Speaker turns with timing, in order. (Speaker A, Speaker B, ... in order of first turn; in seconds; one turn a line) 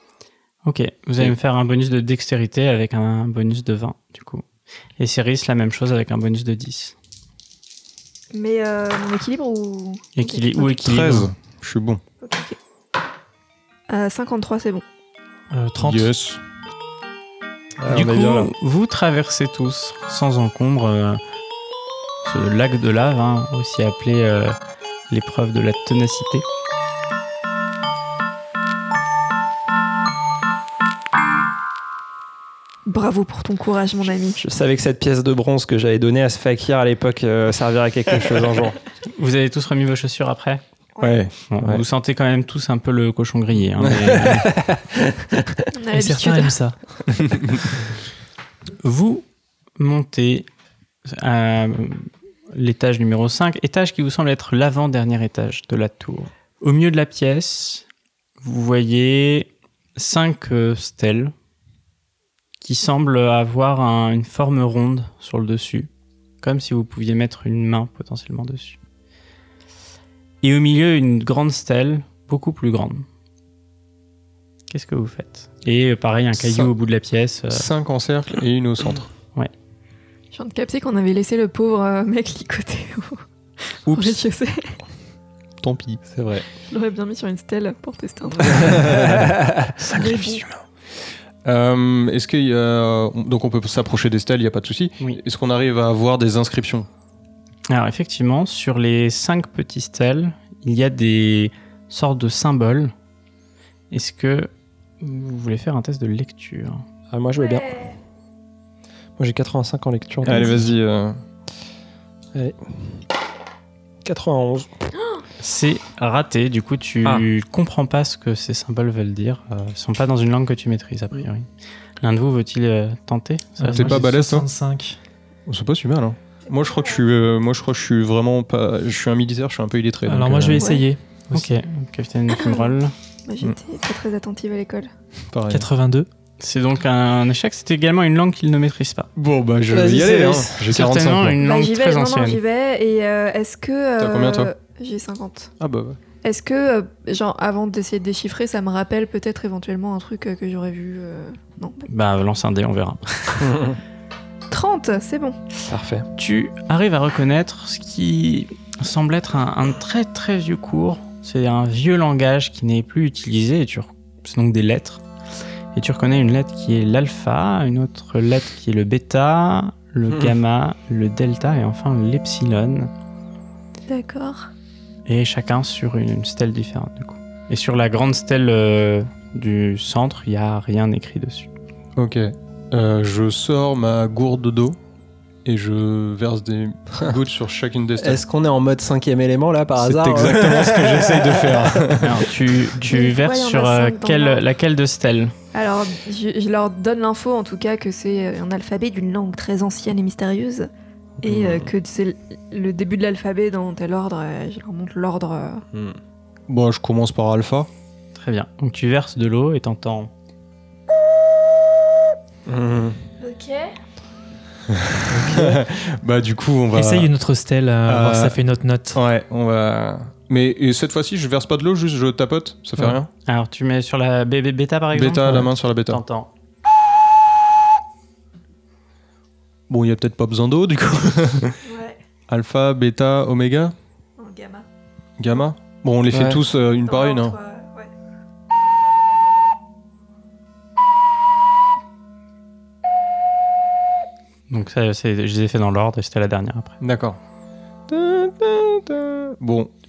Speaker A: 0.6-4.4
Speaker A: 5.0-6.9
Speaker B: 8.3-10.7
Speaker A: 10.2-11.3
Speaker C: 10.7-12.0
Speaker B: 12.2-12.6
Speaker B: 13.9-14.8
Speaker D: 15.5-16.1
Speaker C: 15.8-16.4
Speaker E: 17.8-18.5
Speaker A: 17.9-21.2
Speaker A: 22.2-24.6
Speaker A: 25.1-26.4
Speaker B: 32.9-34.4
Speaker E: 34.4-38.8
Speaker A: 39.1-40.6
Speaker B: 40.9-41.2
Speaker C: 41.0-41.3
Speaker A: 41.5-44.5
Speaker E: 43.8-45.6
Speaker B: 45.7-46.6
Speaker D: 45.9-46.8
Speaker A: 48.8-49.2
Speaker A: 49.8-50.5
Speaker A: 51.0-57.9
Speaker A: 58.4-61.3
Speaker A: 62.6-65.9
Speaker A: 66.4-68.8
Speaker A: 70.4-73.0
Speaker A: 74.7-77.7
Speaker C: 76.4-76.7
Speaker C: 77.5-79.1
Speaker B: 80.3-84.8
Speaker C: 83.9-84.2
Speaker C: 85.6-86.4
Speaker B: 86.7-89.0
Speaker C: 88.4-90.6
Speaker E: 88.6-89.7
Speaker B: 89.9-90.4
Speaker C: 91.4-96.9
Speaker A: 97.7-102.9
Speaker A: 103.9-104.5
Speaker A: 105.0-106.8
Speaker E: 107.1-107.8
Speaker B: 107.4-107.9
Speaker E: 109.2-110.7
Speaker C: 110.2-111.2
Speaker E: 112.3-113.0
Speaker E: 114.0-114.7
Speaker A: 115.4-121.5
Speaker A: 122.0-124.0
Speaker D: 123.6-125.0
Speaker C: 123.7-124.5
Speaker C: 125.5-130.7
Speaker B: 126.5-127.0
Speaker D: 130.0-131.5
Speaker B: 130.6-130.8
Speaker A: 131.3-132.9
Speaker B: 132.3-132.7
Speaker B: 133.3-134.9
Speaker C: 135.3-135.7
Speaker D: 135.5-136.1
Speaker A: 136.4-139.1
Speaker C: 139.2-141.4
Speaker E: 139.7-140.8
Speaker A: 140.7-142.4
Speaker B: 141.4-145.5
Speaker C: 144.0-144.5
Speaker C: 145.6-146.0
Speaker B: 146.2-151.9
Speaker A: 151.9-153.6
Speaker E: 153.4-153.8
Speaker B: 154.5-155.4
Speaker E: 155.7-156.1
Speaker A: 156.2-165.0
Speaker A: 165.7-172.9
Speaker B: 173.9-174.5
Speaker A: 175.1-181.5
Speaker C: 181.9-184.8
Speaker C: 185.4-188.2
Speaker E: 188.0-192.0
Speaker C: 189.8-192.2
Speaker A: 192.0-195.3
Speaker B: 192.9-194.4
Speaker B: 195.5-200.7
Speaker B: 201.2-205.6
Speaker C: 201.3-201.6
Speaker C: 206.5-207.7
Speaker A: 208.1-210.1
Speaker E: 212.4-213.0
Speaker B: 213.2-213.7
Speaker C: 214.9-217.1
Speaker D: 215.1-215.6
Speaker D: 216.7-219.0
Speaker C: 217.8-218.4
Speaker C: 218.9-223.1
Speaker A: 223.2-226.3
Speaker C: 224.9-226.0
Speaker C: 229.7-231.6
Speaker B: 231.6-232.0
Speaker C: 232.3-233.7
Speaker B: 234.2-234.7
Speaker C: 235.2-237.3
Speaker E: 236.1-236.4
Speaker B: 236.8-237.9
Speaker A: 244.5-246.8
Speaker C: 246.8-247.2
Speaker C: 247.9-249.7